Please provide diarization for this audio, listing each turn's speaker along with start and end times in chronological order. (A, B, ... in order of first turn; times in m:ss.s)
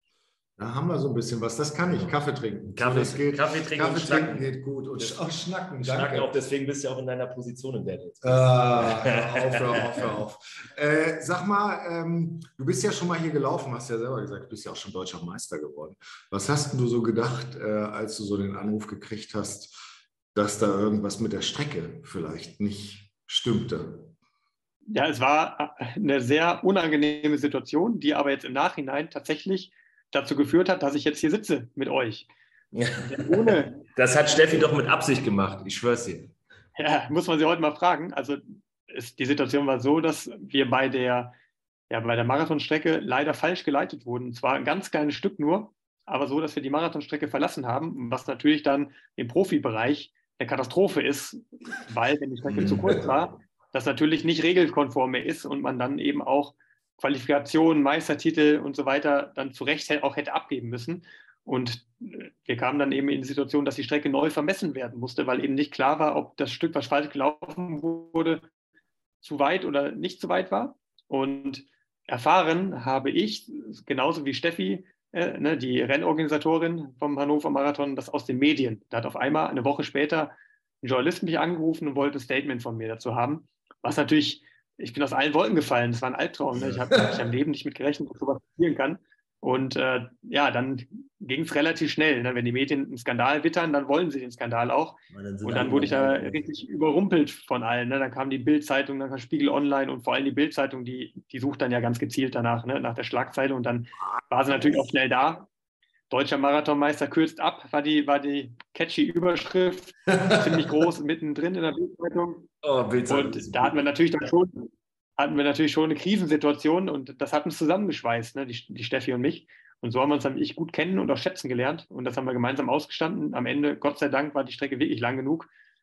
0:00.6-0:06.3 A
0:02.7-0:05.2 B
0:05.8-0:10.1 B
0:08.2-0:19.8 A
0:20.3-0:24.1 A
0:24.9-0:32.3 C
0:32.7-0:36.3 B
0:33.0-0:33.8 C
0:36.8-0:41.3 C
0:41.9-1:08.4 C
0:52.5-0:53.1 B
1:09.2-1:45.5 C
1:26.5-1:27.1 B
1:35.1-1:36.4 B
1:46.1-1:52.5 C
1:50.2-1:50.6 B
1:52.6-1:53.8 B
1:53.1-2:05.5 C